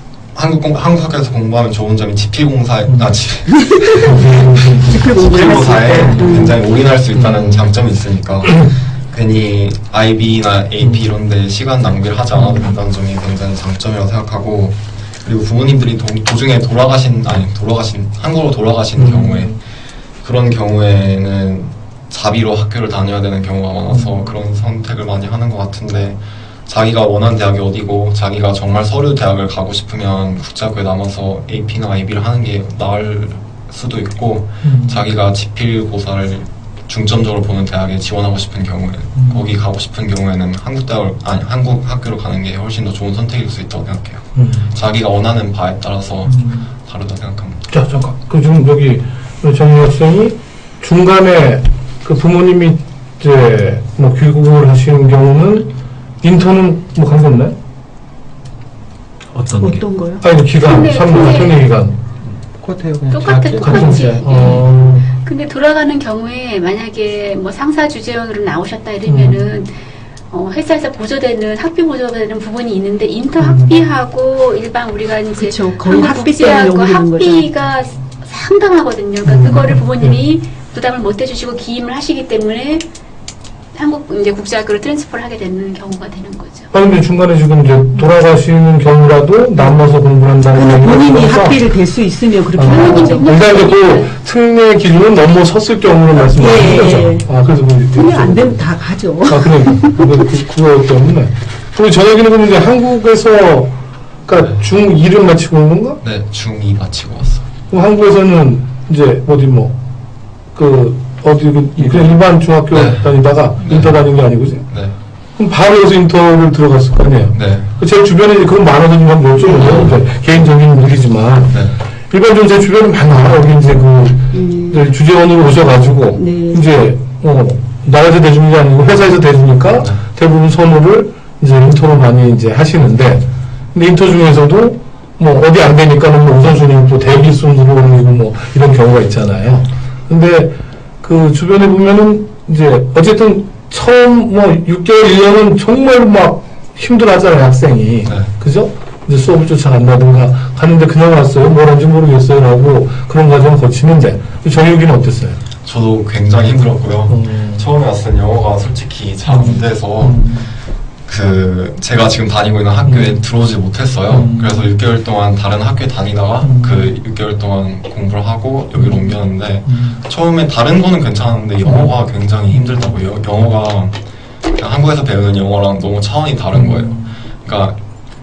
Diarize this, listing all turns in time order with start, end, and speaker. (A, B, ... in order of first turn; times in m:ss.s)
0:00.3-0:19.5 A
0:02.9-0:03.2 B
0:04.0-0:05.1 B
0:04.8-0:06.6 C
0:07.1-0:07.7 B
0:10.8-0:11.1 B
0:12.3-0:12.8 B
0:19.0-0:19.6 B
0:20.2-0:47.6 A
0:23.9-0:24.3 B
0:34.6-0:35.1 B
0:39.2-0:39.6 B
0:44.3-0:44.7 B
0:46.2-0:46.7 B
0:47.7-0:57.6 B
0:59.4-0:59.6 D
0:59.6-1:00.2 C
0:59.6-1:02.0 B
1:00.6-1:01.6 E
1:02.6-1:04.5 D
1:03.1-1:09.7 E
1:03.4-1:05.1 B
1:09.1-1:09.4 B
1:10.3-1:22.8 E
1:13.4-1:13.8 B
1:15.4-1:17.5 C
1:19.2-1:20.2 B
1:23.7-1:26.7 E
1:26.7-1:31.7 B
1:30.5-1:33.3 C
1:32.6-1:38.6 B
1:32.6-1:34.2 E
1:36.1-1:37.3 C
1:37.9-1:40.0 C
1:39.2-1:46.0 B
1:46.0-1:47.5 A
1:47.7-1:49.8 B
1:50.5-1:54.7 B
1:52.7-1:54.0 A
1:54.7-1:55.0 A
1:55.4-2:35.4 B
1:57.3-1:57.7 A
1:59.4-1:59.8 C
1:59.6-1:59.9 A
2:01.5-2:01.8 A
2:04.3-2:04.8 C
2:06.1-2:06.6 C
2:28.0-2:28.3 A
2:35.6-2:40.3 A
2:37.0-2:37.7 B
2:39.3-2:40.5 B
2:41.1-2:54.0 A
2:42.9-2:43.2 B
2:44.1-2:44.7 B
2:46.4-2:47.0 B
2:48.8-2:50.0 B
2:51.6-2:51.9 B
2:52.5-2:53.0 B
2:54.5-2:57.8 A
2:56.5-2:57.2 B